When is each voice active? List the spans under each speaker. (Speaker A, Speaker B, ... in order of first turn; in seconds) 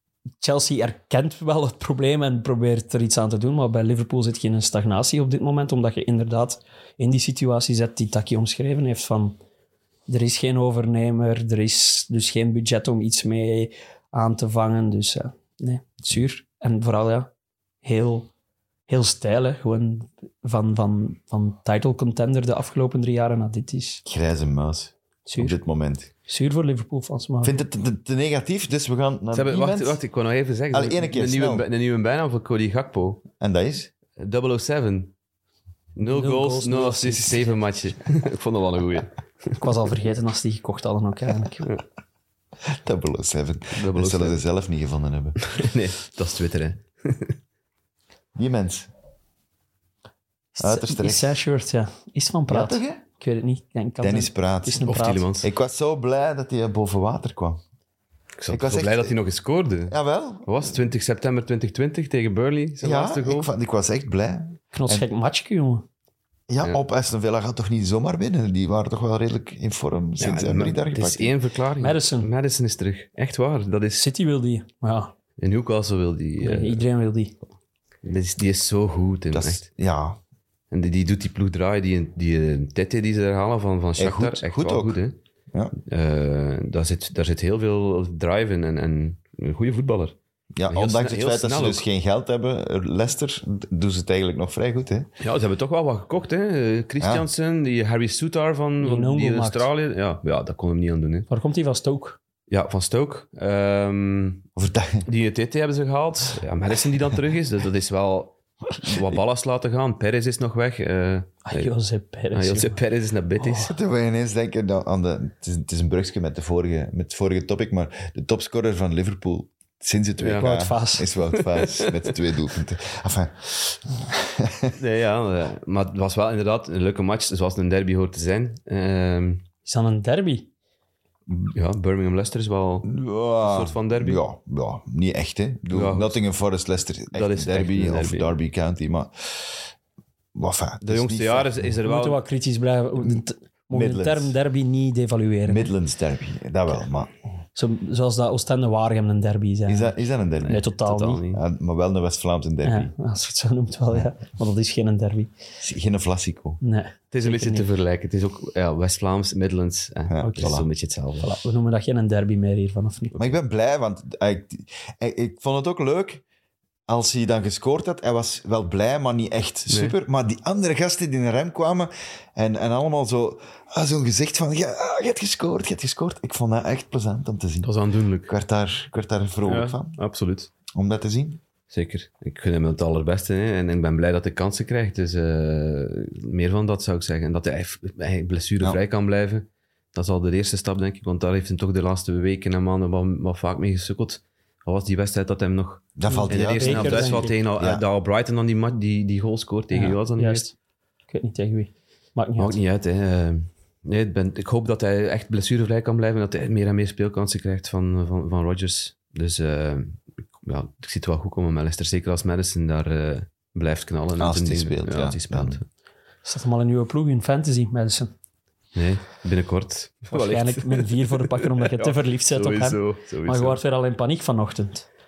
Speaker A: 0.4-9.4, 10.1-17.3, 17.8-18.3, 18.9-24.0, 25.2-25.6, 26.2-27.5, 36.0-37.4, 39.6-41.8, 50.5-55.2, 64.7-65.8, 71.8-72.3, 74.0-75.1, 76.4-77.3, 98.8-99.7, 101.3-102.2, 111.5-112.8, 113.4-113.6, 120.4-121.1, 129.6-130.5, 141.8-145.7, 147.5-151.2, 152.6-155.3, 156.6-157.7, 160.2-160.6, 161.2-163.2, 196.1-197.4, 199.7-200.5, 201.1-202.6, 216.2-218.1, 220.1-224.8
Speaker B: 24.0-26.1, 27.4-30.0, 30.7-31.7, 33.4-33.9, 42.6-45.5, 48.3-48.9, 50.6-51.4, 52.5-53.0, 54.0-54.8, 55.4-57.6, 58.5-59.1, 59.9-60.8, 62.8-65.0, 66.5-71.3, 79.3-80.2, 84.0-85.0, 90.5-95.1, 97.0-97.2, 104.5-105.0, 113.5-124.7, 132.8-139.7, 140.3-141.7, 143.7-144.3, 145.5-147.1, 149.7-150.7, 151.3-152.9, 155.6-156.6, 160.1-160.7, 163.1-166.2, 166.9-177.7, 178.3-180.0, 180.7-181.4, 195.9-197.8, 214.2-215.6
Speaker C: 29.3-33.2, 34.2-35.1, 36.0-39.6, 43.7-44.4, 45.4-47.4, 54.8-55.5, 58.4-63.5, 70.2-74.1, 75.4-76.8, 78.0-79.6, 80.7-85.2, 85.9-91.8, 95.2-101.3, 102.5-104.4, 105.0-111.7, 112.3-113.7, 120.2-120.5, 121.3-122.2, 124.8-129.4, 131.5-134.2, 135.7-136.2, 137.1-138.3, 140.8-142.2, 150.4-151.4, 157.1-161.4, 169.7-169.9, 177.6-178.3, 179.4-180.5, 181.7-200.4, 202.4-215.6, 218.7-223.6